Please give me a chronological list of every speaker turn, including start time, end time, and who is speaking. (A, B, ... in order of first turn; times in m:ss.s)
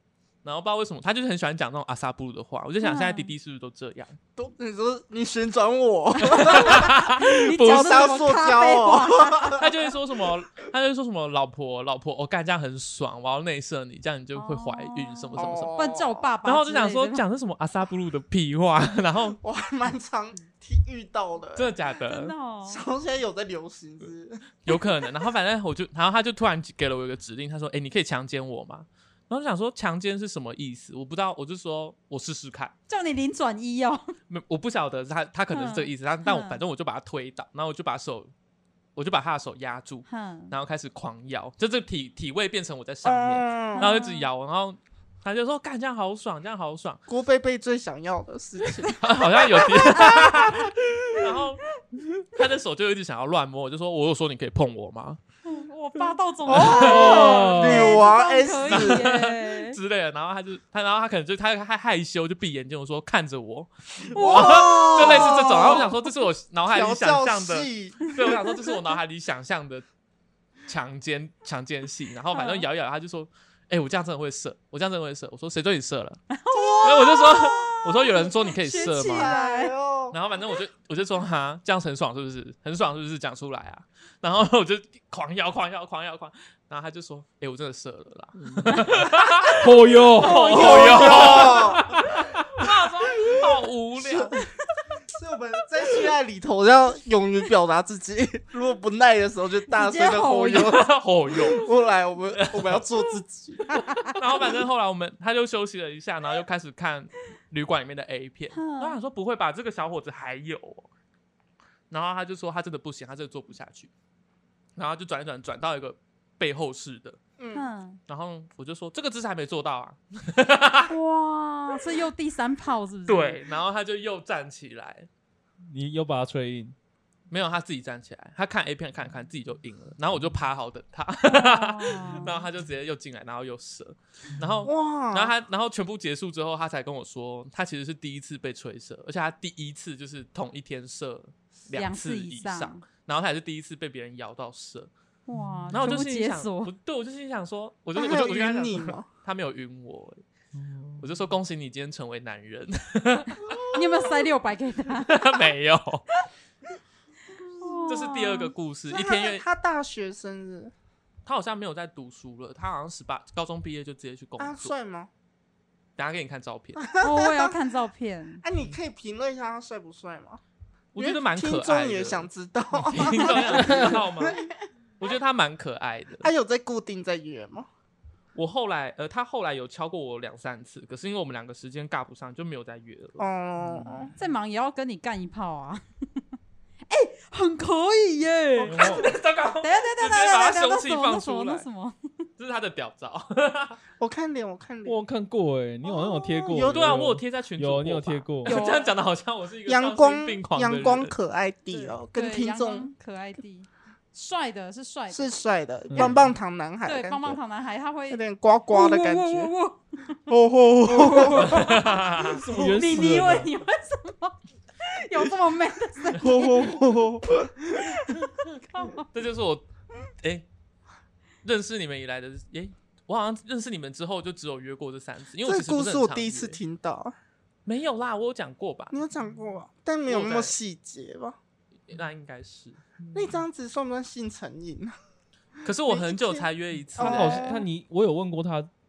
0:00.4-0:04.2 A
0:02.8-0:03.3 B
0:04.4-0:09.8 C
0:06.2-0:09.6 B
0:06.2-0:08.2 A
0:09.6-0:15.8 A
0:14.3-0:17.2 B
0:15.4-0:16.3 C
0:16.4-0:19.4 A
0:19.4-0:21.7 C
0:21.6-0:22.3 A
0:22.0-0:22.8 B
0:22.6-0:24.8 C
0:24.6-0:32.7 A
0:32.9-0:34.1 B
0:34.3-0:38.3 A
0:35.5-0:36.6 B
0:39.0-0:47.0 A
0:40.1-0:40.5 B
0:43.0-0:43.9 C
0:43.8-0:44.3 B
0:47.1-0:49.0 C
0:49.0-0:51.6 A
0:49.6-0:50.5 B
0:49.7-0:51.3 C
0:52.3-0:55.2 A
0:55.4-0:59.8 B
0:56.4-0:59.1 C
0:56.5-0:58.0 D
0:56.6-0:57.3 A
0:58.6-1:09.8 A
1:04.1-1:06.0 C
1:04.1-1:05.9 B
1:06.7-1:08.5 C
1:10.7-1:16.2 A
1:12.3-1:12.6 B
1:16.3-1:19.7 B
1:16.5-1:17.1 C
1:16.8-1:19.3 A
1:19.0-1:20.2 C
1:20.1-1:34.4 A
1:28.4-1:31.5 D
1:30.0-1:31.7 B
1:30.4-1:31.9 C
1:32.1-1:32.4 D
1:33.2-1:33.5 C
1:34.0-1:34.4 C
1:35.0-1:43.8 C
1:39.7-1:40.7 B
1:40.5-1:41.7 A
1:42.3-1:42.9 A
1:43.7-1:44.2 B
1:44.0-1:50.9 A
1:48.5-1:49.0 B
1:51.9-1:53.9 A
1:54.8-1:57.2 A
1:57.4-1:57.7 C
1:57.5-1:58.0 B
1:58.1-2:00.9 A
2:00.9-2:03.4 B
2:03.1-2:05.1 A
2:05.7-2:06.7 D
2:07.3-2:24.9 A
2:11.3-2:12.4 B
2:14.6-2:15.3 C
2:21.7-2:22.8 B
2:25.3-2:26.7 B
2:25.3-2:26.0 D
2:25.7-2:30.2 A
2:27.9-2:29.1 C
2:30.5-2:31.2 D
2:31.0-2:33.7 A
2:33.5-2:34.1 C
2:33.7-2:35.3 B
2:35.0-2:36.0 A
2:37.6-2:38.5 B
2:37.9-2:39.4 A
2:38.9-2:40.7 C
2:41.2-2:44.7 A
2:44.4-2:45.1 C
2:46.0-2:46.8 A
2:46.8-2:47.6 C
2:47.0-2:48.4 B
2:48.4-2:50.4 C
2:50.9-2:54.4 A
2:51.0-2:54.5 C
2:53.4-2:54.0 D
2:55.0-2:56.3 A
2:56.2-2:57.7 C
2:58.3-3:03.2 A
3:03.2-3:04.1 C
3:03.6-3:04.1 D
3:04.2-3:05.8 B
3:06.9-3:12.0 B
3:08.6-3:11.6 A
3:08.6-3:09.1 D
3:12.4-3:13.8 A
3:14.0-3:15.0 C
3:14.8-3:18.6 D
3:15.8-3:17.0 C
3:16.6-3:21.1 A
3:18.4-3:18.9 B
3:19.6-3:22.9 C
3:21.7-3:25.3 B
3:25.1-3:27.4 C
3:25.9-3:26.3 D
3:26.8-3:30.2 B
3:28.1-3:29.5 C
3:30.3-3:31.9 C
3:30.8-3:31.9 B
3:31.4-3:31.6 D
3:31.4-3:32.4 A
3:32.2-3:33.5 D
3:32.5-3:36.8 B
3:36.1-3:38.1 C
3:38.0-3:39.0 B
3:39.0-3:39.6 A
3:40.2-3:40.4 A
3:41.4-3:46.6 A
3:45.4-3:47.1 C
3:47.6-3:49.0 A
3:48.9-3:51.4 C
3:50.1-3:50.5 A
3:51.9-3:52.8 A
3:53.1-3:53.4 D
3:53.1-3:54.9 C
3:55.6-3:57.5 A
3:55.8-3:57.6 C
3:57.0-3:58.7 D
3:57.3-3:57.6 B